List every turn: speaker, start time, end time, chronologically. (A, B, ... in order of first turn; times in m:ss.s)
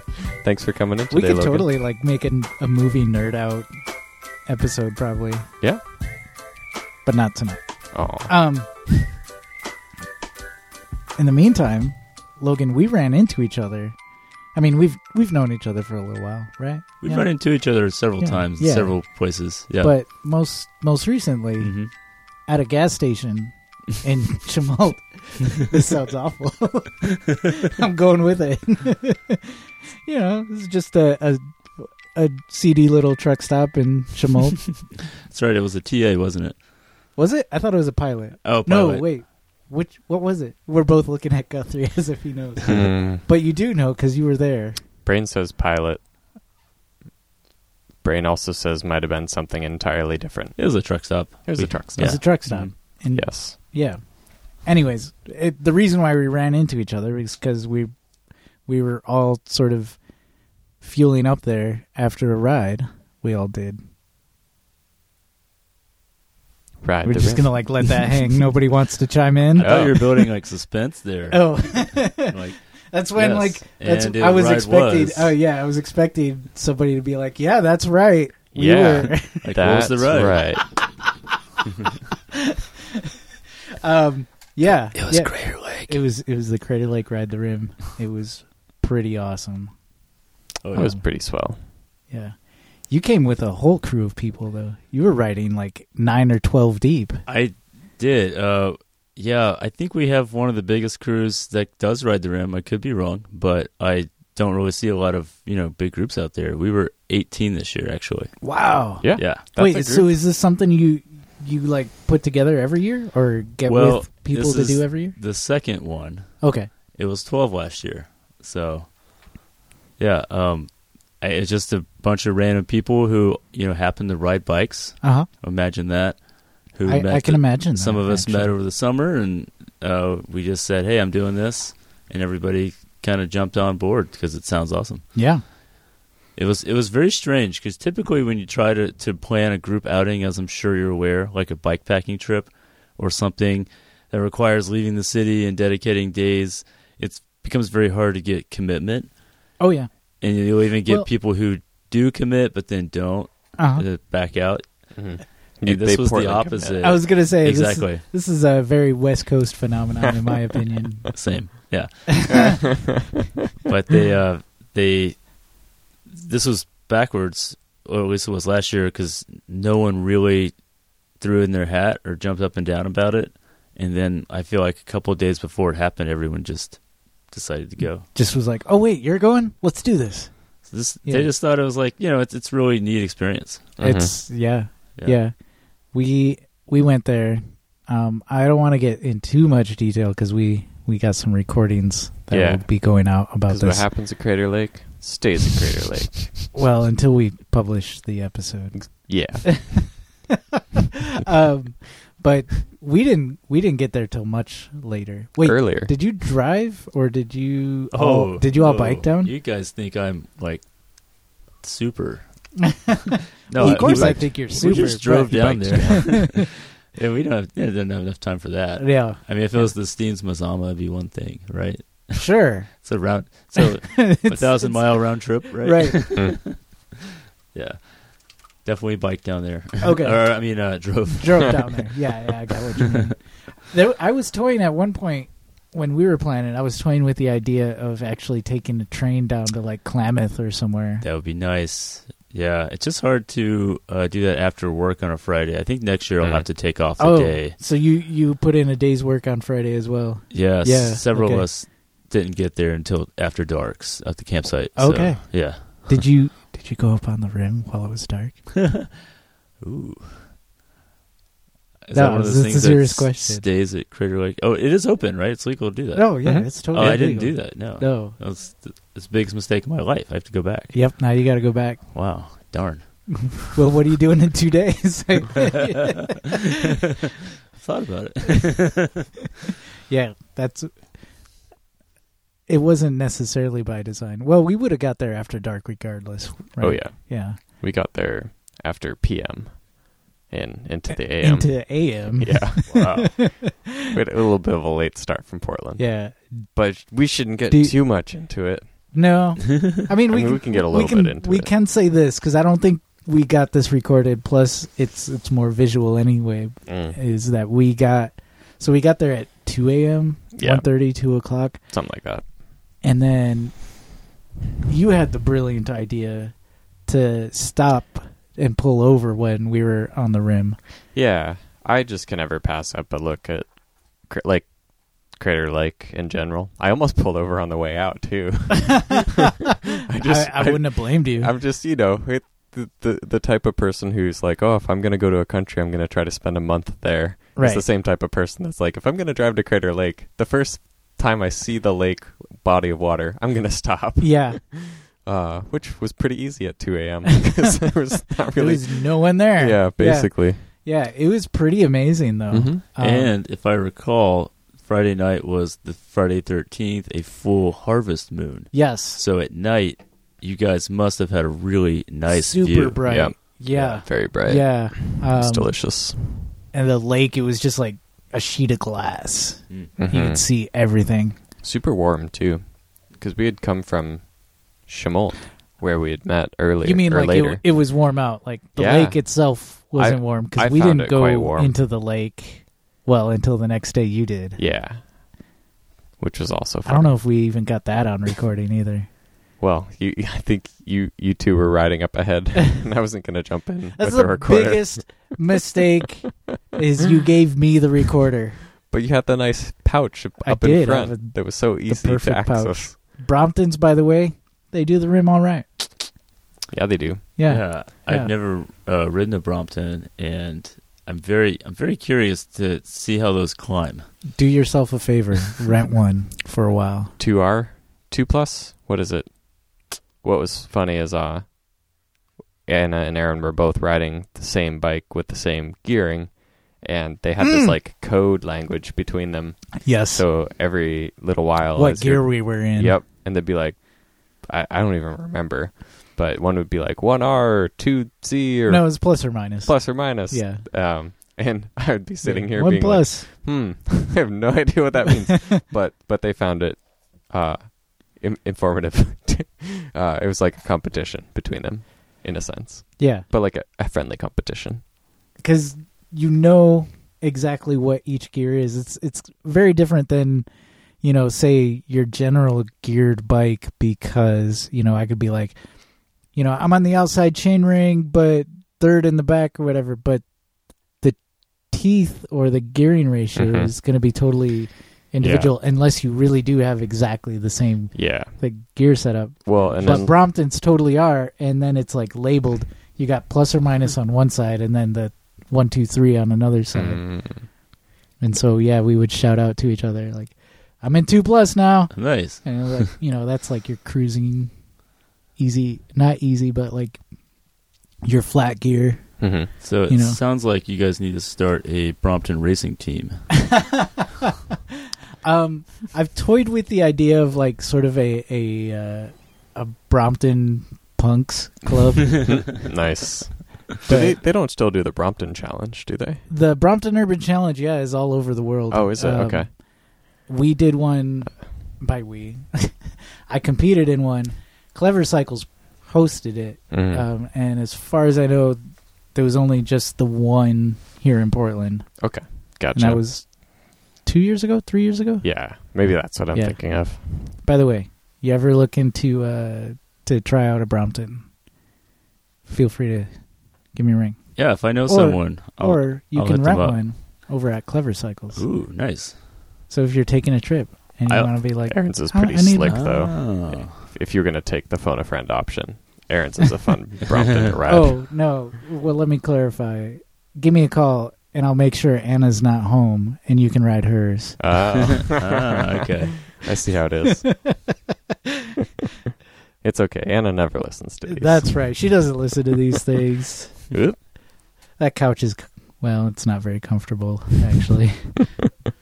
0:00.4-0:01.7 A
0:01.1-0:03.7 B
0:04.4-0:05.5 B
0:07.0-0:07.6 B
0:07.9-0:08.3 A
0:08.1-0:08.9 B
0:11.2-0:13.9 B
0:14.5-0:21.9 B
0:17.0-0:19.9 C
0:21.6-0:21.9 C
0:22.4-0:34.8 B
0:35.2-0:36.6 C
0:37.2-0:44.8 B
0:38.4-0:39.1 C
0:42.7-0:43.2 A
0:45.0-0:46.0 A
0:48.0-0:52.3 A
0:50.6-0:52.7 C
0:52.0-0:54.0 B
0:53.1-0:53.6 A
0:54.6-0:57.9 B
0:58.6-1:00.0 B
1:00.8-1:03.8 B
1:06.8-1:07.7 A
1:07.0-1:10.0 B
1:09.5-1:12.6 C
1:09.6-1:10.0 A
1:11.3-1:12.4 B
1:12.9-1:19.5 B
1:13.1-1:15.3 C
1:18.5-1:20.6 A
1:19.4-1:20.4 C
1:22.3-1:23.1 B
1:23.8-1:29.7 B
1:24.9-1:26.0 C
1:30.6-1:30.9 C
1:30.7-1:31.6 A
1:32.9-1:37.2 B
1:37.2-1:48.3 C
1:48.4-1:55.2 B
1:49.0-1:50.1 A
1:49.2-1:49.4 C
1:53.6-1:58.9 C
1:56.4-1:56.7 B
2:00.0-2:15.0 C
2:05.0-2:05.3 B
2:06.8-2:08.5 B
2:15.1-2:15.4 B
2:16.3-2:29.1 C
2:29.6-2:29.9 B
2:30.2-2:34.9 C
2:33.6-2:33.8 B
2:34.9-2:36.8 A
2:35.6-2:38.0 C
2:36.8-2:41.2 B
2:41.1-2:42.6 C
2:42.1-2:42.5 B
2:42.2-2:43.1 A
2:43.6-2:45.3 C
2:46.0-2:50.6 C
2:51.2-2:58.1 C
2:58.1-3:01.3 B
3:00.6-3:03.7 C
3:03.8-3:04.1 A
3:03.8-3:05.3 B
3:05.9-3:13.9 B
3:12.3-3:12.6 A
3:13.5-3:16.4 A
3:16.5-3:29.3 B
3:18.7-3:19.8 A
3:25.4-3:25.9 A
3:27.9-3:30.6 C
3:31.6-3:32.2 C
3:32.6-3:36.4 B
3:33.5-3:46.6 C
3:33.6-3:34.2 A
3:35.3-3:36.3 A
3:38.8-3:39.6 B
3:42.1-3:46.2 B
3:47.5-3:48.0 C
3:48.6-3:51.9 C
3:49.8-4:01.0 B
4:01.0-4:07.6 C
4:07.0-4:11.6 B
4:10.3-4:16.0 C
4:14.8-4:18.4 B
4:18.6-4:18.9 C
4:19.6-4:20.2 C
4:21.8-4:30.7 C
4:21.9-4:23.4 B
4:25.9-4:28.2 B
4:26.2-4:26.5 A
4:30.7-4:31.9 B
4:31.9-4:33.2 C
4:33.2-4:36.4 B
4:37.5-4:39.1 C
4:39.9-4:41.0 B
4:42.5-4:47.4 B
4:46.6-4:49.7 A
4:50.3-4:55.9 A
4:51.2-4:53.8 B
4:52.7-4:53.1 C
4:55.8-4:56.5 B
4:56.5-4:58.7 A
4:57.5-4:57.8 B
4:58.9-5:11.6 B
5:00.1-5:01.5 A
5:06.7-5:07.0 A
5:10.4-5:10.6 A
5:11.7-5:12.2 A
5:12.8-5:13.6 B
5:14.6-5:20.6 B
5:20.9-5:23.5 A
5:24.0-5:24.5 A
5:25.1-5:29.3 A
5:29.8-5:50.4 A
5:30.0-5:31.3 B
5:37.4-5:37.6 B
5:44.0-5:44.4 B
5:48.3-5:53.1 B
5:52.3-5:52.6 A
5:52.8-6:02.8 C
5:58.5-5:59.0 B
6:02.1-6:05.6 B
6:02.9-6:06.3 A
6:06.5-6:11.2 B
6:09.8-6:10.2 A
6:11.4-6:17.4 A
6:16.6-6:24.4 B
6:18.6-6:19.1 A
6:19.7-6:21.5 A
6:24.4-6:24.8 A
6:26.0-6:26.9 A
6:26.6-6:28.9 B
6:29.4-6:35.1 A
6:33.8-6:38.4 B
6:38.7-6:42.7 A
6:40.2-6:45.9 B
6:46.5-6:47.0 A
6:47.2-6:48.1 B
6:47.3-6:53.9 C
6:54.1-6:56.9 B
6:57.0-7:01.3 A
7:02.5-7:13.6 A
7:07.2-7:07.5 B
7:09.6-7:10.0 B
7:11.6-7:12.8 B
7:14.2-7:34.6 A
7:18.5-7:20.4 B
7:22.0-7:23.1 B
7:32.8-7:33.0 B
7:35.2-7:40.2 B
7:40.8-7:45.4 B
7:46.1-7:50.0 B
7:51.5-8:06.9 B
7:53.2-7:53.5 A
7:55.0-7:55.3 A
7:57.7-7:58.1 A
7:59.2-7:59.9 A
8:06.5-8:07.2 A
8:08.0-8:14.3 B
8:11.7-8:12.7 C
8:15.2-8:16.8 B
8:17.8-8:19.0 B
8:19.0-8:19.3 A
8:19.4-8:23.0 C
8:19.7-8:20.0 B
8:23.1-8:24.1 B
8:25.0-8:32.4 B
8:32.0-8:36.0 A
8:33.6-8:34.0 B
8:36.1-8:39.4 B
8:38.5-8:39.3 A
8:40.0-8:42.6 B
8:43.1-8:48.4 B
8:46.5-8:46.8 A
8:48.9-8:51.9 B
8:51.8-8:52.8 A
8:52.5-8:53.2 B
8:53.8-8:55.2 B
8:55.0-8:57.1 A
8:56.1-9:01.0 B
9:02.2-9:02.9 B
9:03.5-9:08.2 B
9:04.2-9:06.6 C
9:08.1-9:09.0 C
9:09.5-9:12.8 B
9:10.9-9:11.1 C
9:11.5-9:17.8 A
9:12.4-9:13.6 C
9:16.9-9:17.3 C
9:17.5-9:24.6 B
9:24.2-9:25.4 A
9:24.8-9:26.1 C
9:26.1-9:27.1 A
9:27.0-9:27.4 B
9:29.4-9:31.5 A
9:30.8-9:33.5 B
9:33.5-9:33.8 A
9:34.6-9:38.0 B